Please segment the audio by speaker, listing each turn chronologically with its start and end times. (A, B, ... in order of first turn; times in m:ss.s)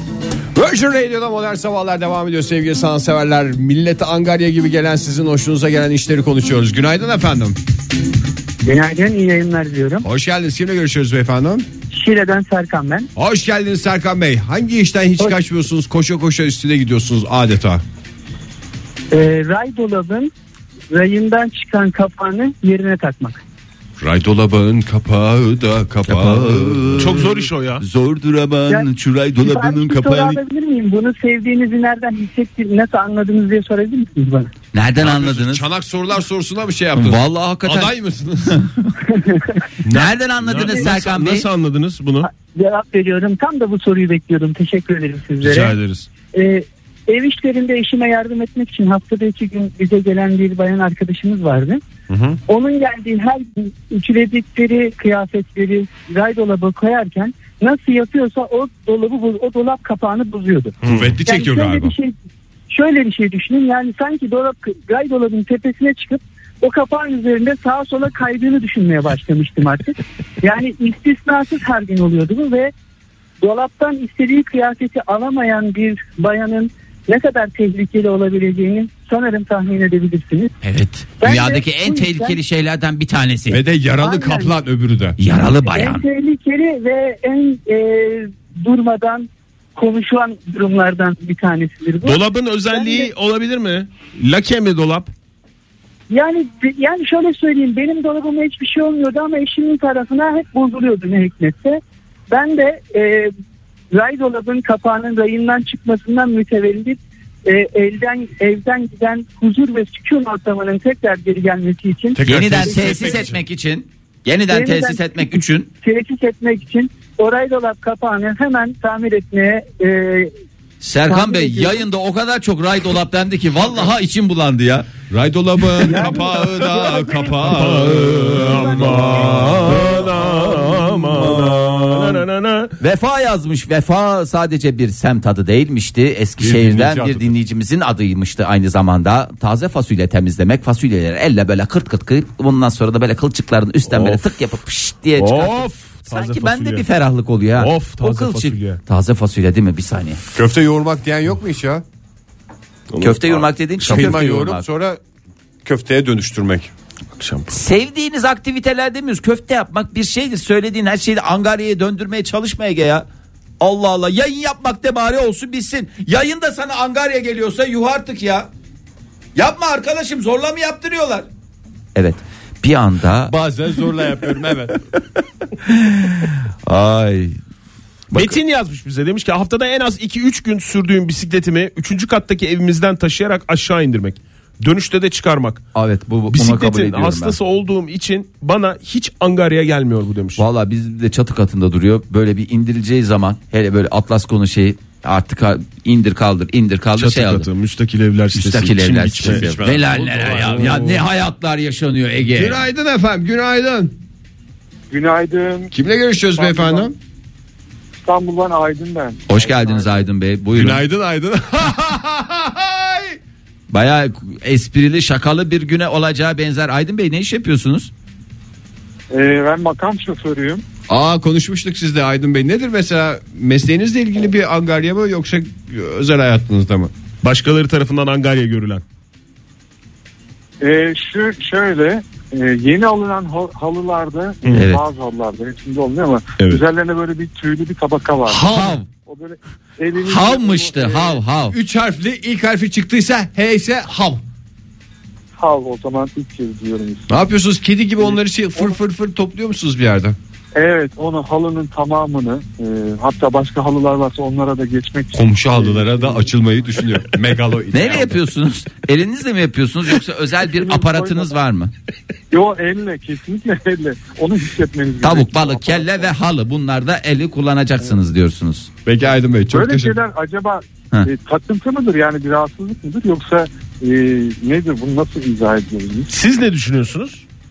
0:00.5-0:07.6 A
0:08.6-0:10.1 B
0:10.0-0:11.7 A
0:11.9-0:13.1 B
0:13.2-0:17.8 A
0:19.1-0:20.3 B
0:20.9-0:23.4 B
0:24.0-0:27.2 A
0:26.0-0:30.4 C
0:27.0-0:27.8 D
0:28.7-0:34.5 B
0:34.7-0:35.6 C
0:35.0-0:38.6 A
0:37.0-0:38.0 C
0:38.5-0:38.9 C
0:39.8-0:42.3 D
0:39.9-0:41.5 C
0:42.3-0:45.8 B
0:45.4-0:46.1 D
0:46.3-0:51.8 B
0:52.1-0:52.4 A
0:52.5-1:00.7 B
1:00.8-1:01.2 D
1:00.8-1:01.9 A
1:01.2-1:02.1 B
1:02.7-1:12.7 B
1:13.4-1:20.5 B
1:20.6-1:23.6 C
1:21.2-1:22.4 B
1:23.5-1:25.2 A
1:24.0-1:24.5 B
1:25.2-1:26.0 C
1:25.7-1:32.2 B
1:32.0-1:35.1 D
1:32.7-1:33.1 B
1:36.1-1:43.3 B
1:43.9-1:53.2 B
1:52.2-1:53.4 A
1:52.3-1:55.7 C
1:54.5-1:55.2 B
1:55.8-2:00.3 B
2:00.8-2:04.9 C
2:01.1-2:01.8 B
2:05.1-2:11.8 A
2:05.8-2:06.8 C
2:07.4-2:12.7 D
2:08.8-2:09.1 B
2:12.8-2:30.2 C
2:16.4-2:17.3 A
2:23.9-2:24.2 D
2:25.2-2:26.8 D
2:27.6-2:28.8 D
2:30.4-2:31.8 A
2:32.9-2:34.2 D
2:33.0-2:34.6 C
2:33.9-2:35.0 A
2:35.6-2:36.7 A
2:37.2-2:37.5 D
2:37.5-2:43.0 C
2:43.6-2:48.5 C
2:49.4-2:51.3 C
2:52.0-2:53.3 C
2:53.2-2:54.8 A
2:55.7-2:57.4 C
2:58.1-2:58.4 C
2:58.1-3:05.6 D
3:05.8-3:07.4 C
3:06.3-3:10.4 D
3:10.4-3:17.5 C
3:17.0-3:19.6 D
3:18.4-3:22.6 C
3:19.2-3:21.0 A
3:22.3-3:24.0 A
3:24.9-3:25.7 E
3:25.7-3:27.0 A
3:26.4-3:26.9 E
3:28.0-3:30.1 E
3:29.3-3:30.8 C
3:30.5-3:33.2 A
3:33.7-3:37.9 C
3:39.1-3:40.6 E
3:40.9-3:46.9 A
3:47.2-3:48.8 D
3:50.6-3:58.5 E
3:54.4-3:54.7 D
3:54.6-3:54.8 C
3:56.4-3:56.6 D
3:58.3-3:58.8 A
3:58.4-3:58.9 C
3:59.1-4:01.2 E
4:00.0-4:01.6 C
4:01.5-4:04.2 A
4:05.4-4:07.2 E
4:07.1-4:10.2 A
4:08.0-4:08.8 E
4:10.6-4:16.3 E
4:15.1-4:18.2 A
4:17.7-4:21.7 C
4:20.5-4:21.4 E
4:22.3-4:26.1 E
4:25.0-4:28.7 C
4:28.8-4:30.0 A
4:29.5-4:36.1 E
4:36.1-4:37.2 D